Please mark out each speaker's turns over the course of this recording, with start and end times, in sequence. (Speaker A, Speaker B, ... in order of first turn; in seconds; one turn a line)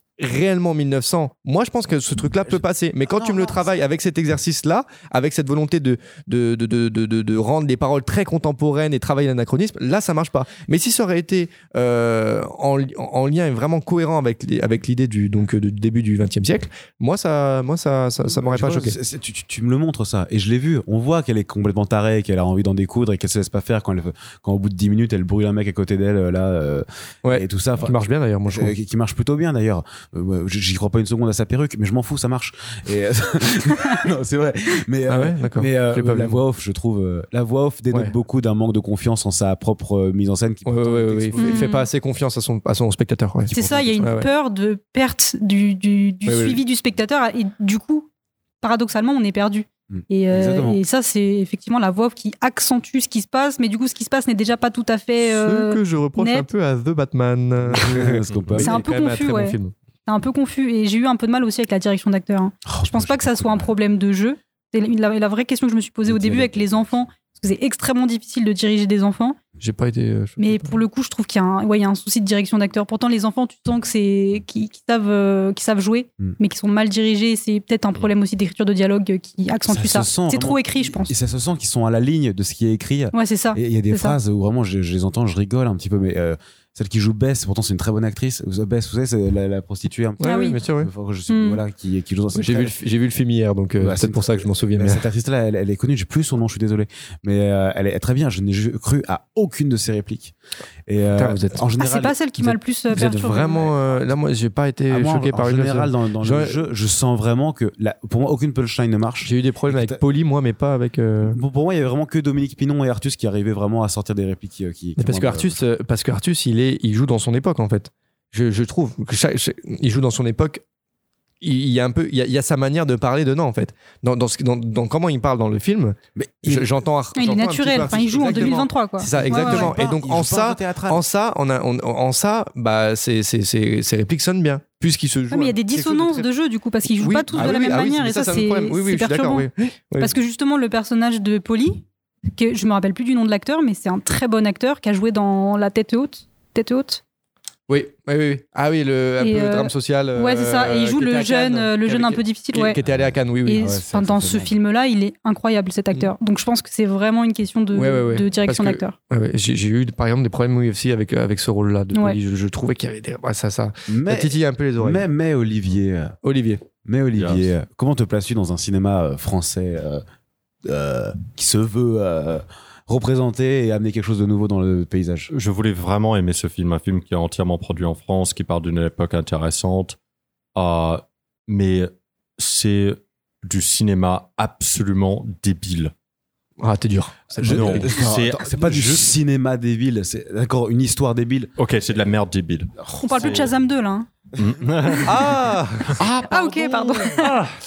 Speaker A: 0.2-18.9
Speaker B: 3.1-3.7
Speaker B: 18.2-27.9
Speaker A: 27.2-28.7
Speaker B: 28.5-41.7
Speaker A: 35.1-36.4
Speaker A: 40.7-44.3
Speaker C: 41.4-41.9
Speaker B: 43.5-44.2
Speaker C: 43.5-48.1
Speaker A: 46.2-46.6
Speaker C: 48.6-56.5
Speaker B: 49.9-50.8
Speaker A: 55.3-59.7
Speaker B: 57.7-58.8
Speaker C: 58.6-69.4
Speaker B: 62.7-63.7
Speaker B: 66.1-66.6
Speaker A: 69.6-70.8
Speaker C: 70.4-81.1
Speaker B: 79.7-92.7
Speaker C: 83.1-84.2
Speaker A: 90.2-90.9
Speaker C: 90.2-90.6
Speaker C: 91.3-91.6
Speaker A: 92.3-95.0
Speaker B: 93.8-100.3
Speaker B: 100.9-102.2
Speaker A: 101.2-101.6
Speaker C: 101.8-103.7
Speaker A: 102.4-106.6
Speaker B: 104.9-110.0
Speaker A: 109.2-111.4
Speaker B: 111.3-115.6
Speaker A: 115.0-120.6
Speaker A: 121.4-136.3
Speaker B: 126.2-126.7
Speaker C: 127.2-129.7
Speaker B: 129.1-131.0
Speaker C: 135.3-139.5
Speaker A: 136.9-140.1
Speaker C: 140.0-147.0
Speaker A: 147.7-153.8
Speaker C: 149.2-152.8
Speaker B: 152.9-154.5
Speaker C: 153.4-158.9
Speaker A: 157.7-165.1
Speaker B: 163.9-166.2
Speaker A: 166.2-166.6
Speaker B: 166.8-170.0
Speaker D: 167.2-167.5
Speaker B: 170.7-175.3
Speaker D: 175.3-179.9
Speaker D: 180.6-185.9
Speaker A: 186.6-188.0
Speaker B: 187.4-191.5
Speaker D: 187.5-189.1
Speaker D: 191.6-193.5
Speaker B: 192.8-193.4
Speaker C: 193.0-194.1
Speaker D: 194.4-197.5
Speaker A: 195.0-196.0
Speaker C: 196.2-197.3